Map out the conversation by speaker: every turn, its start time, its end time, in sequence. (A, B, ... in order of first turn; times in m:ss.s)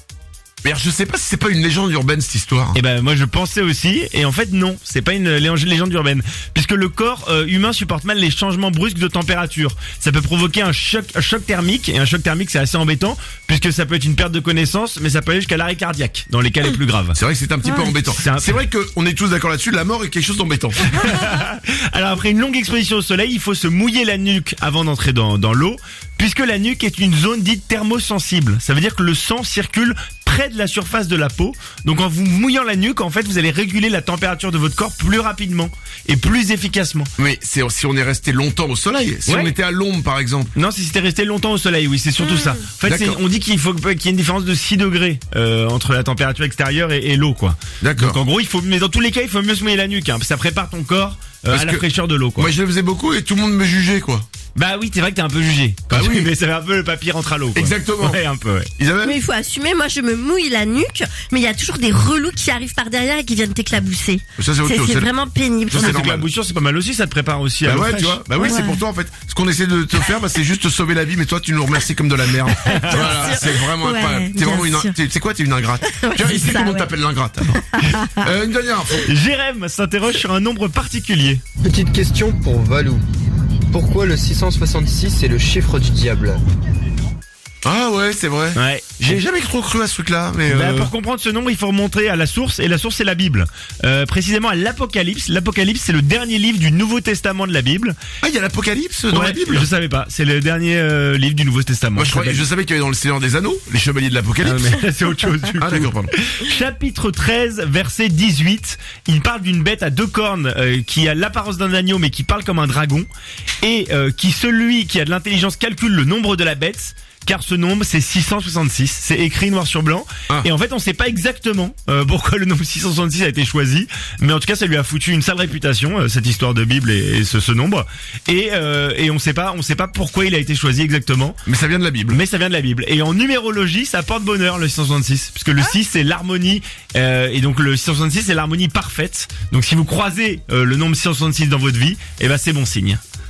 0:00.6-0:02.8 A
0:02.7-0:17.2 B
0:17.2-0:21.1 A
0:18.0-0:18.6 B
0:20.8-0:37.1 B
0:37.2-0:40.5 A
0:39.2-0:39.6 B
0:40.6-0:52.5 B
0:42.2-0:42.6 C
0:42.8-0:43.2 A
0:47.8-0:48.2 A
0:51.5-0:54.3 A
0:54.6-0:58.7 B
0:55.9-0:56.3 A
0:57.5-0:58.2 A
0:58.8-0:59.2 A
0:59.0-1:05.9 C
1:04.4-1:05.1 A
1:05.7-1:06.3 A
1:05.7-1:08.2 B
1:07.6-1:19.1 A
1:08.4-1:08.8 C
1:12.6-1:14.9 C
1:12.7-1:13.1 B
1:15.8-1:16.9 C
1:17.7-1:18.3 C
1:19.0-1:21.4 B
1:21.6-1:23.0 D
1:23.7-1:26.4 D
1:27.6-1:30.9 A
1:28.6-1:29.2 B
1:30.5-1:38.0 B
1:38.2-1:39.7 A
1:39.1-1:42.5 B
1:42.0-1:44.8 A
1:44.4-1:53.1 B
1:45.6-1:46.1 A
1:53.6-2:11.4 B
2:11.5-2:12.2 A
2:12.1-2:23.0 B